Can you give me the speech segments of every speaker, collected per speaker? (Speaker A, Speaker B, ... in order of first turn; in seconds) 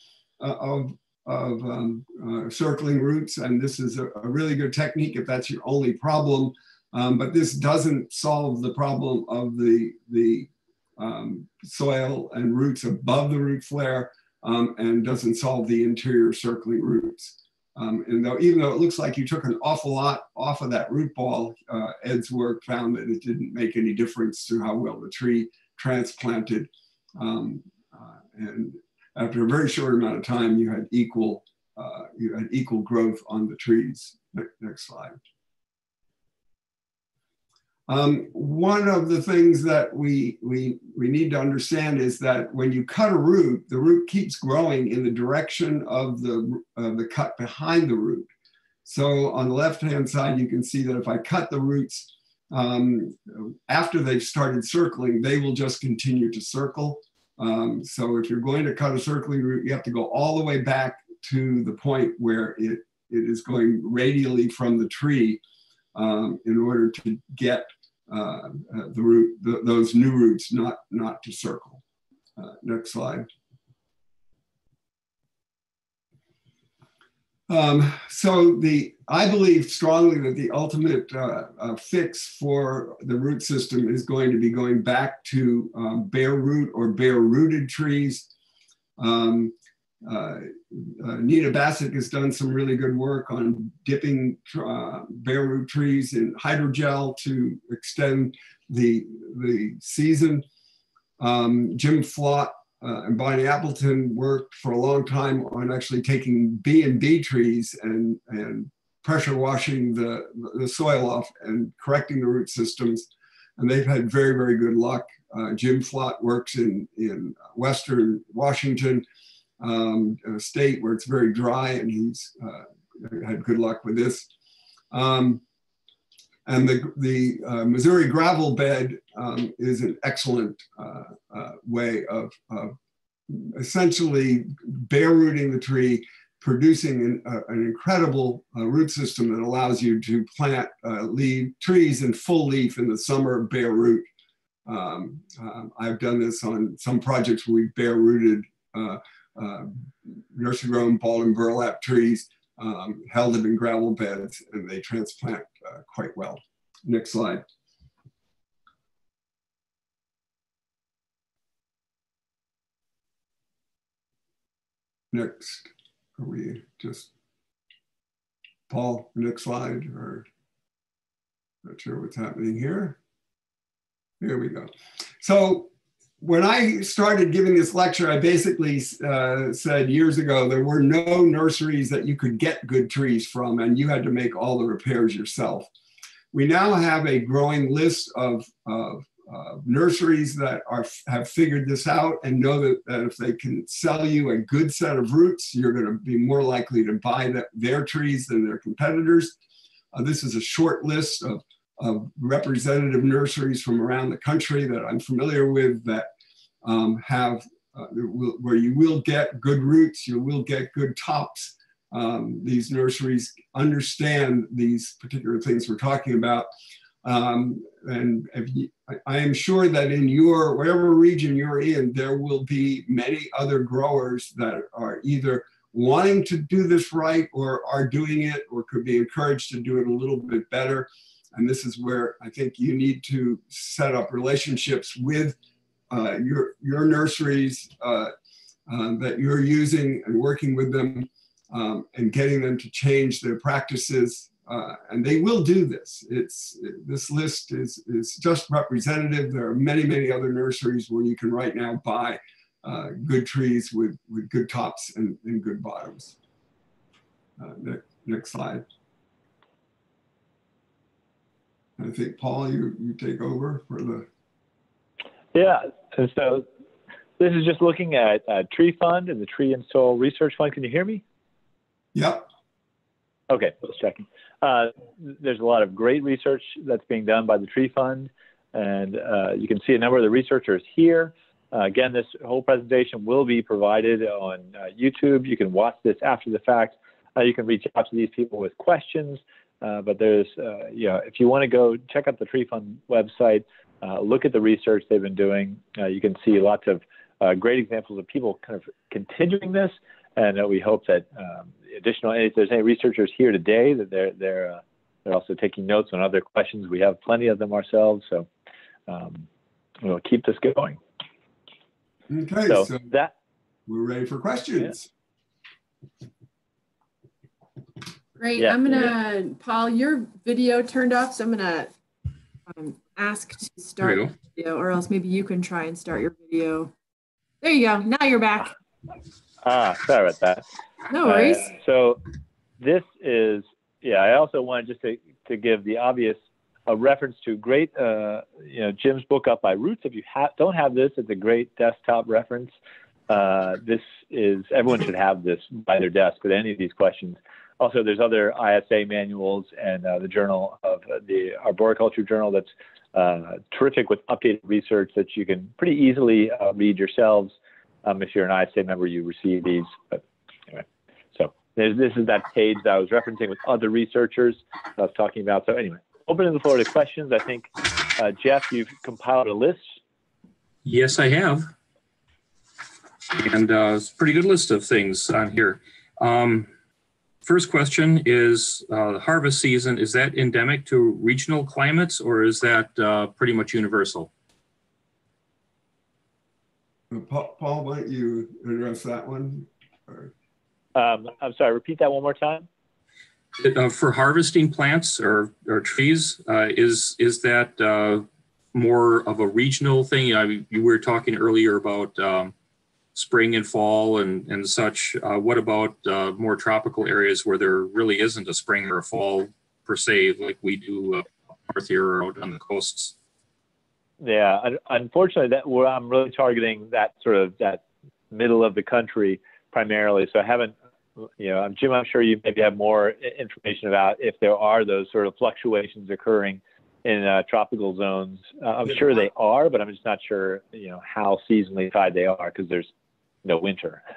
Speaker A: 0.4-35.2, 37.9-48.3, 48.8-65.4, 65.9-71.8, 72.3-73.3, 77.5-88.3, 89.0-100.4, 101.2-119.0, 119.6-124.3, 124.9-125.4, 126.5-132.7, 133.3-144.1, 144.7-157.4, 165.1-167.1, 168.7-170.2, 171.6-173.0, 174.2-185.7, 186.3-199.3, 199.9-206.1, 206.6-216.5, 217.0-235.4, 235.9-238.1, 238.7-256.1, 257.4-258.6, 261.8-264.1, 271.9-272.3, 312.1-312.9, 313.7-314.9, 386.9-390.1
Speaker B: 265.3-266.4, 267.2-271.0, 273.3-308.3, 308.9-309.2, 309.8-310.8, 312.5-313.1, 318.4-318.9, 329.4-330.4, 331.0-332.0, 332.6-342.5, 343.1-360.6, 361.1-369.6, 390.7-392.5, 414.0-432.7, 433.2-433.8
Speaker C: 318.2-321.7, 322.5-326.7, 327.4-328.5, 330.9-331.5
Speaker D: 323.8-324.1, 370.6-371.5, 373.1-376.5, 377.2-384.1, 393.4-402.3, 402.9-412.9